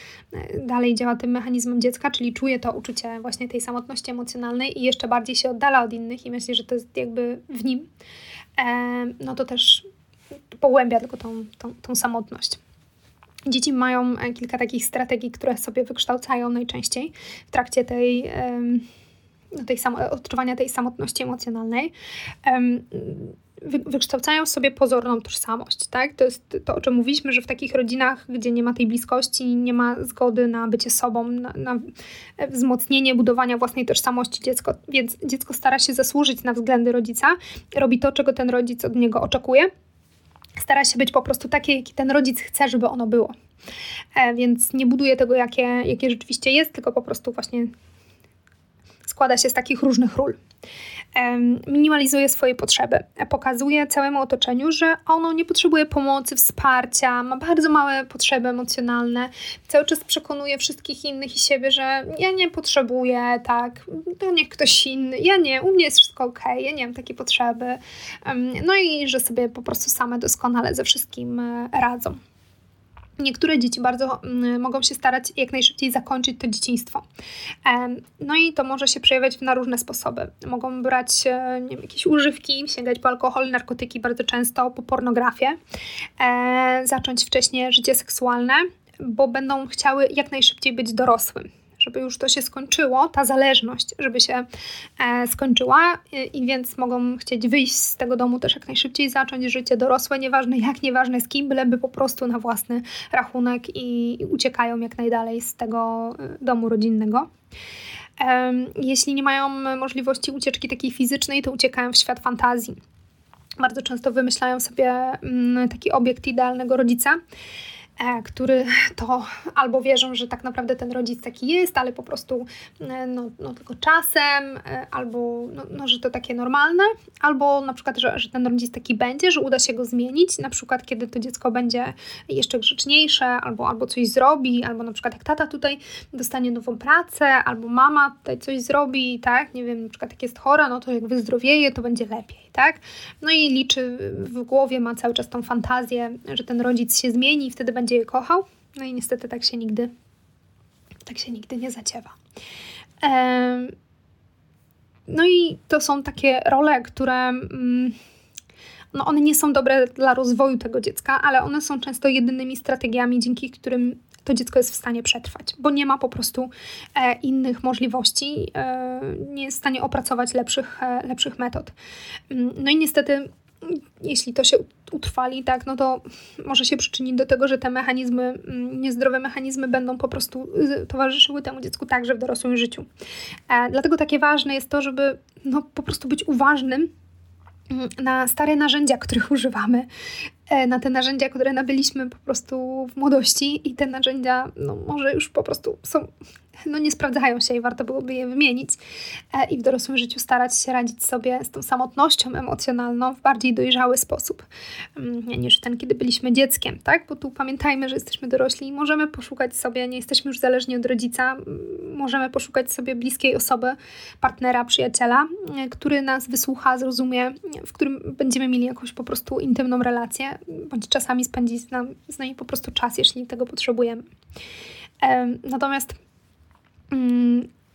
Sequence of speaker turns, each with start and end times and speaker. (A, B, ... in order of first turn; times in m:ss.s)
0:00.3-0:07.9 A
0:08.6-0:09.9 A
0:10.5-0:12.6 A
0:13.5-0:18.9 A
0:19.5-0:21.9 A
0:22.4-0:39.7 A
0:40.6-0:43.3 A
0:44.2-0:47.7 A
0:49.0-0:50.4 A
0:51.2-1:12.2 A
1:13.2-1:17.0 A
1:17.6-1:25.6 A
1:26.2-1:34.4 A
1:35.0-1:47.3 A
1:48.2-1:52.8 A
1:53.6-1:57.2 A
1:58.0-2:29.9 A
2:31.1-2:32.2 A
2:33.0-2:33.7 A
2:35.1-2:38.0 A
2:38.9-2:51.7 A
2:52.3-3:02.9 A
3:03.5-3:06.9 A
3:07.7-3:09.9 A
3:10.5-3:16.1 A
3:16.6-3:18.8 A
3:19.3-3:24.4 A
3:25.0-3:44.1 A
3:45.0-3:46.0 A
3:46.9-3:47.5 A